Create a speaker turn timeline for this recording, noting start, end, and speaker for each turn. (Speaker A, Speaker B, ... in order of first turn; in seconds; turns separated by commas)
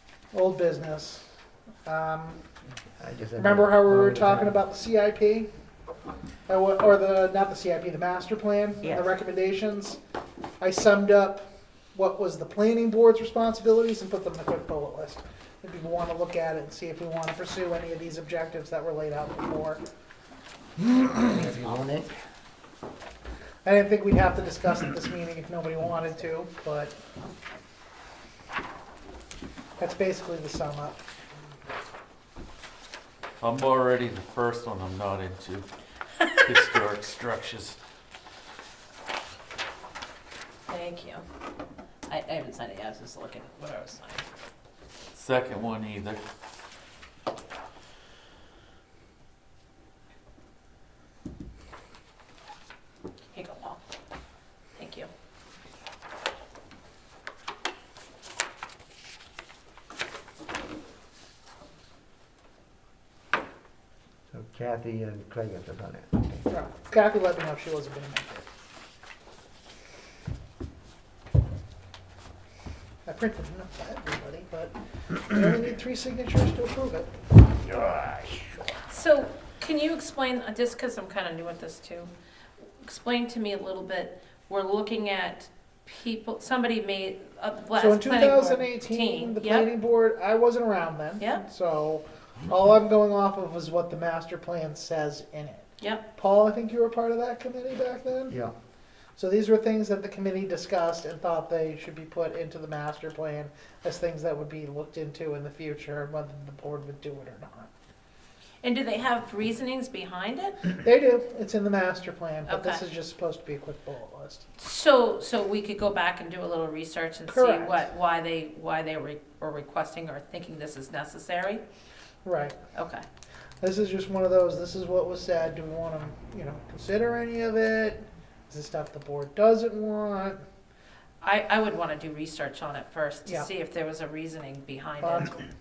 Speaker A: 0.3-1.2, Speaker A: 1.8-2.4, Speaker B: 3.0-4.6, Speaker A: 3.4-5.5, Speaker A: 6.5-10.0, Speaker A: 10.6-19.8, Speaker B: 20.8-22.1, Speaker A: 23.6-26.9, Speaker A: 29.8-31.0, Speaker C: 33.4-35.7, Speaker C: 36.4-37.8, Speaker D: 40.7-41.2, Speaker D: 42.1-44.2, Speaker C: 45.1-46.2, Speaker D: 53.3-53.8, Speaker D: 54.8-55.1, Speaker B: 64.3-66.4, Speaker A: 66.5-68.5, Speaker A: 73.0-77.1, Speaker D: 78.9-82.1, Speaker D: 82.8-89.7, Speaker A: 87.8-98.3, Speaker A: 99.2-107.7, Speaker D: 108.6-110.6, Speaker A: 110.8-114.4, Speaker D: 112.5-112.8, Speaker D: 114.6-121.6, Speaker A: 117.3-117.9, Speaker A: 122.2-122.6, Speaker D: 122.7-123.0, Speaker A: 123.6-130.4, Speaker D: 131.2-135.3, Speaker A: 135.0-135.3